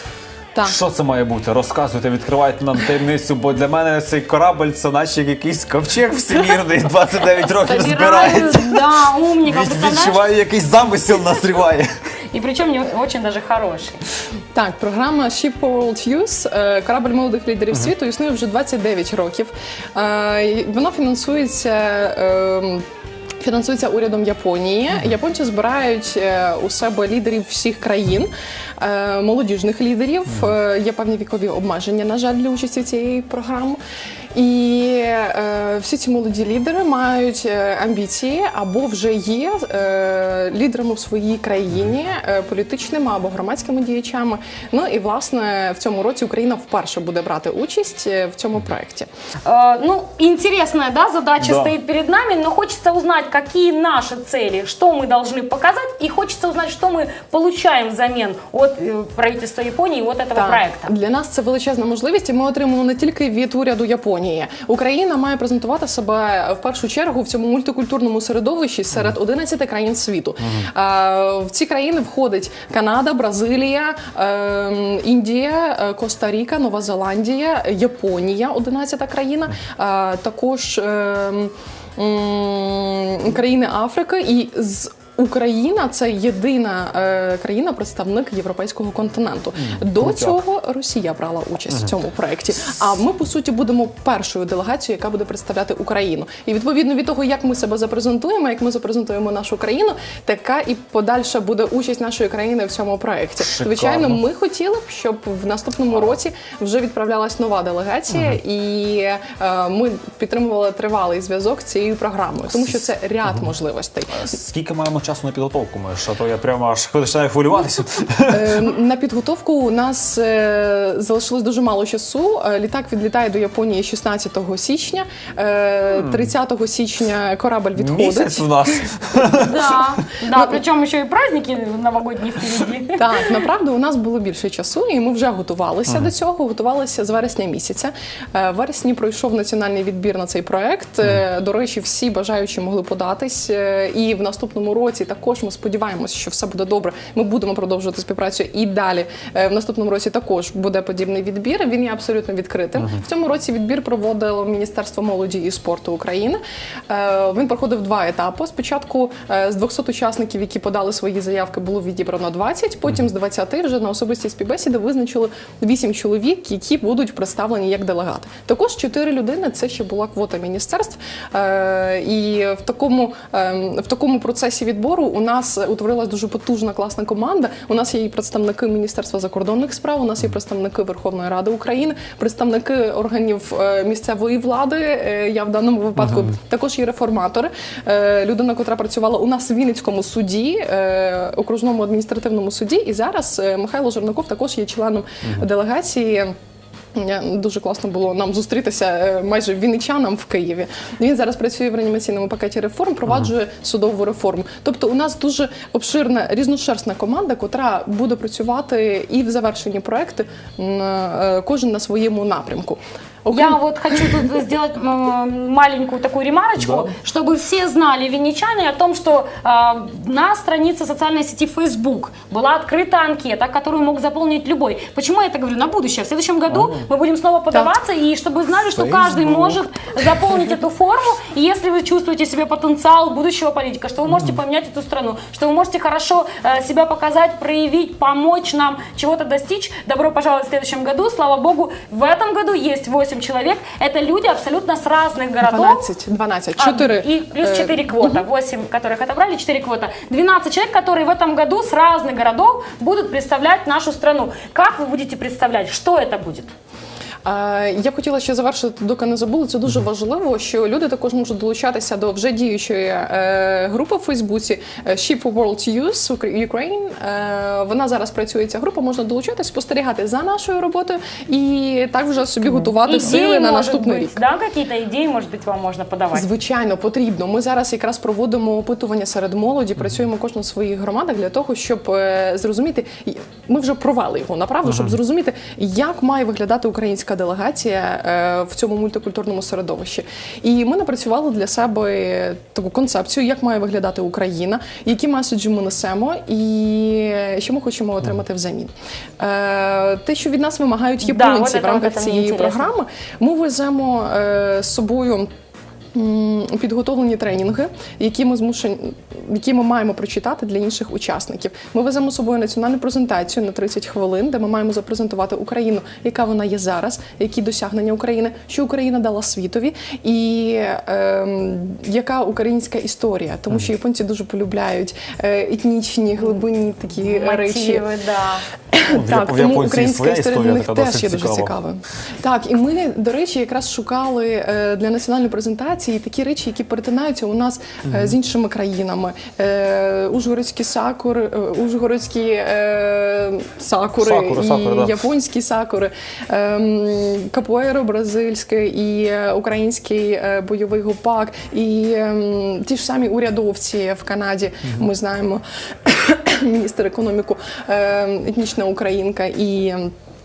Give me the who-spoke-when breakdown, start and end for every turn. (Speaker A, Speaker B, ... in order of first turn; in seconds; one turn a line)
Speaker A: 0.6-11.9
Speaker B: 7.6-10.2
Speaker B: 12.3-14.0
Speaker C: 14.5-22.8
Speaker C: 23.4-33.8
Speaker C: 34.3-49.1
Speaker B: 49.4-60.9
Speaker A: 51.4-51.7
Speaker C: 60.3-114.3
Speaker A: 70.4-70.7
Speaker A: 89.6-90.4
Speaker A: 103.4-104.2
Speaker A: 114.1-118.6
Speaker C: 118.3-128.8
Speaker A: 125.9-126.3
Speaker A: 127.7-129.9
Speaker B: 129.4-133.3
Speaker C: 130.3-130.6
Speaker C: 133.0-196.3
Speaker A: 186.0-186.3
Speaker C: 196.9-214.3
Speaker B: 213.3-245.8
Speaker A: 216.6-216.9
Speaker A: 226.5-226.8
Speaker A: 228.7-229.6
Speaker A: 234.1-234.4
Speaker C: 245.4-248.2
Speaker B: 246.6-256.5
Speaker C: 257.2-274.2
Speaker B: 272.8-276.3
Speaker C: 276.1-305.3
Speaker A: 284.6-284.9
Speaker B: 301.0-302.7
Speaker C: 305.9-327.9
Speaker B: 327.0-328.4
Speaker C: 328.7-359.9
Speaker A: 328.8-331.5
Speaker A: 337.9-338.1
Speaker A: 344.0-345.1